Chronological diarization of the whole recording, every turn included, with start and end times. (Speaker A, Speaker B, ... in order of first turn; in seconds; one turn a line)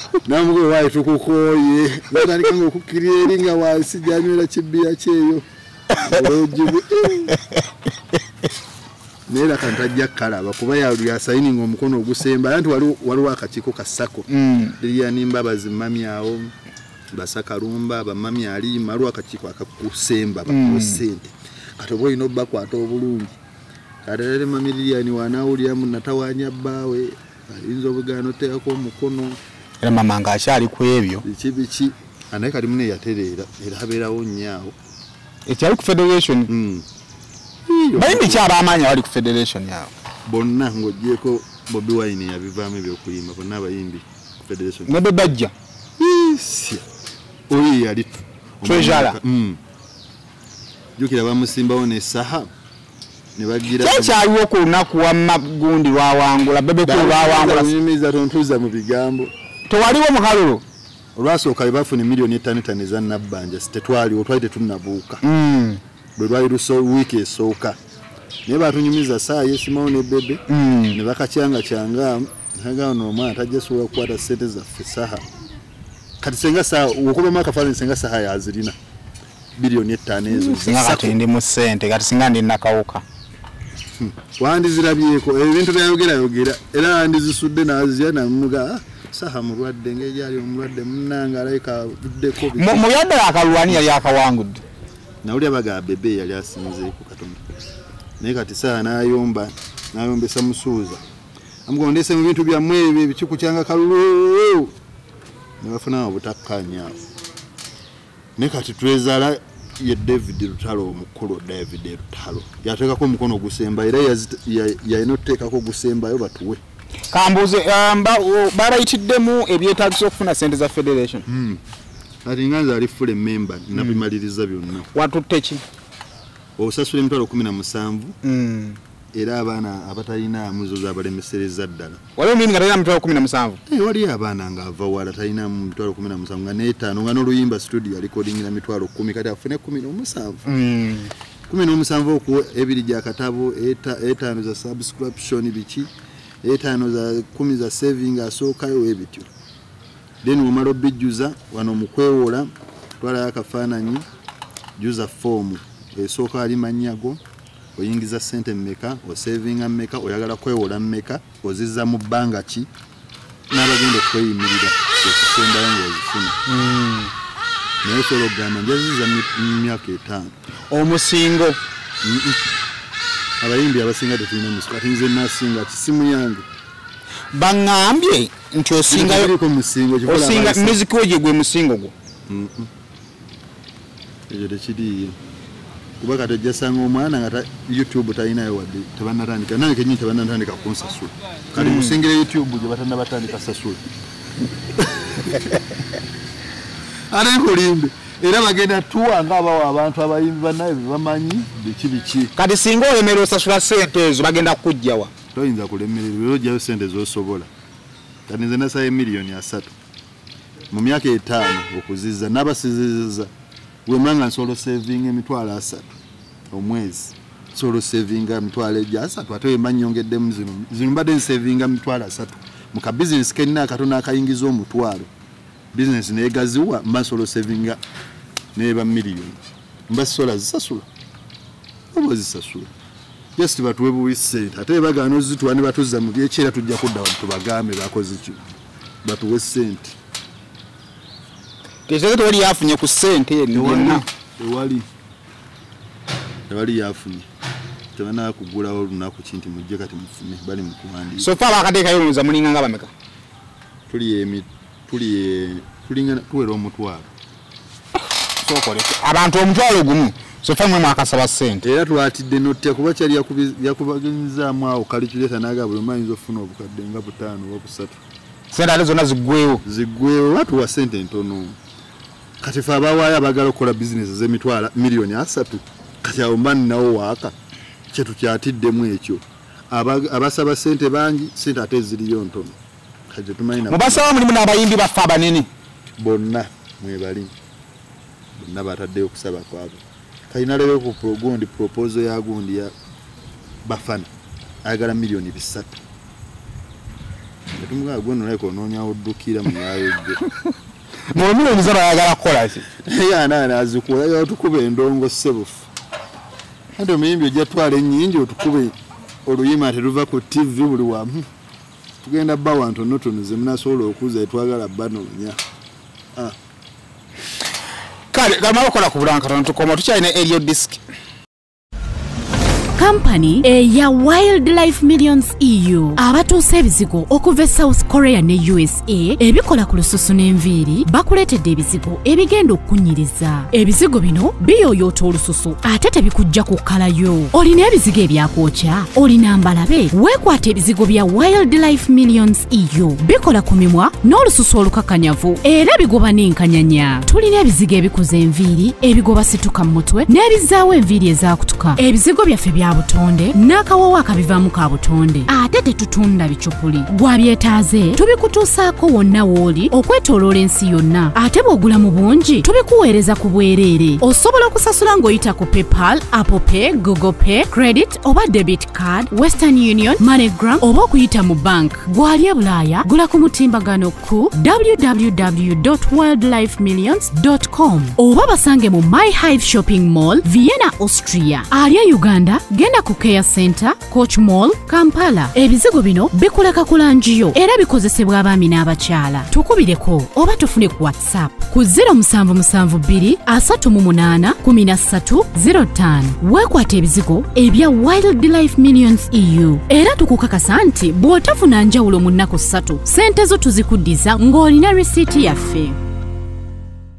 Speaker A: 0.2-7.3
Speaker A: 9.3-16.5
Speaker B: 14.3-14.7
Speaker A: 17.1-23.3
Speaker B: 20.5-21.0
Speaker A: 24.1-29.4
Speaker B: 29.8-31.2
Speaker A: 31.2-34.7
Speaker B: 35.5-36.5
Speaker A: 36.5-36.8
Speaker A: 37.7-38.5
Speaker B: 38.0-39.9
Speaker A: 40.3-45.0
Speaker B: 44.9-45.5
Speaker A: 46.0-46.8
Speaker A: 47.5-49.6
Speaker B: 48.6-49.2
Speaker A: 51.0-52.5
Speaker A: 53.4-54.2
Speaker B: 53.7-57.7
Speaker A: 56.8-59.3
Speaker B: 59.7-60.6
Speaker A: 61.2-65.2
Speaker B: 65.2-65.8
Speaker A: 66.2-67.8
Speaker A: 68.5-75.3
Speaker B: 70.5-71.0
Speaker A: 76.2-78.8
Speaker A: 79.6-81.2
Speaker B: 80.3-83.0
Speaker A: 84.0-92.8
Speaker B: 92.5-94.6
Speaker A: 95.2-97.4
Speaker A: 98.2-101.0
Speaker A: 101.7-104.7
Speaker A: 105.6-107.0
Speaker A: 108.4-116.6
Speaker B: 117.1-121.2
Speaker A: 121.3-121.6
Speaker A: 122.2-124.9
Speaker B: 123.7-124.0
Speaker B: 124.9-125.6
Speaker A: 126.6-128.2
Speaker B: 128.2-128.8
Speaker A: 129.1-132.0
Speaker B: 132.2-133.6
Speaker A: 133.7-140.4
Speaker B: 140.4-141.1
Speaker A: 141.5-145.9
Speaker A: 146.4-149.3
Speaker A: 150.2-154.0
Speaker A: 154.8-157.2
Speaker A: 157.8-162.7
Speaker A: 163.5-166.4
Speaker B: 166.5-167.1
Speaker A: 167.8-170.3
Speaker B: 170.7-171.6
Speaker A: 172.0-172.4
Speaker A: 173.4-176.4
Speaker B: 177.3-179.3
Speaker A: 178.9-180.8
Speaker B: 180.1-181.9
Speaker A: 182.3-182.7
Speaker A: 184.3-185.2
Speaker A: 186.0-193.8
Speaker B: 191.6-192.0
Speaker A: 194.9-195.5
Speaker A: 197.1-202.3
Speaker B: 202.4-205.1
Speaker A: 205.3-207.5
Speaker A: 208.3-209.7
Speaker A: 210.7-213.3
Speaker A: 213.9-216.0
Speaker A: 216.5-225.1
Speaker A: 225.7-227.8
Speaker A: 228.6-230.9
Speaker A: 231.9-232.7
Speaker A: 233.4-238.5
Speaker A: 239.0-239.9
Speaker B: 241.9-244.1
Speaker A: 243.5-244.9
Speaker A: 246.5-247.3
Speaker A: 247.9-251.4
Speaker B: 251.2-252.9
Speaker A: 253.9-257.1
Speaker B: 258.4-261.6
Speaker A: 261.6-268.0
Speaker B: 268.5-269.6
Speaker A: 269.6-271.6
Speaker A: 272.4-277.3
Speaker A: 277.9-282.6
Speaker A: 283.1-284.1
Speaker B: 283.7-285.5
Speaker A: 286.0-287.3
Speaker A: 288.4-292.7
Speaker A: 293.6-294.1
Speaker A: 294.6-295.8
Speaker A: 297.6-300.2
Speaker B: 301.1-302.7
Speaker A: 302.8-305.7
Speaker A: 306.8-308.7
Speaker A: 309.3-311.3
Speaker A: 312.0-315.4
Speaker B: 318.1-320.8
Speaker C: 322.7-405.8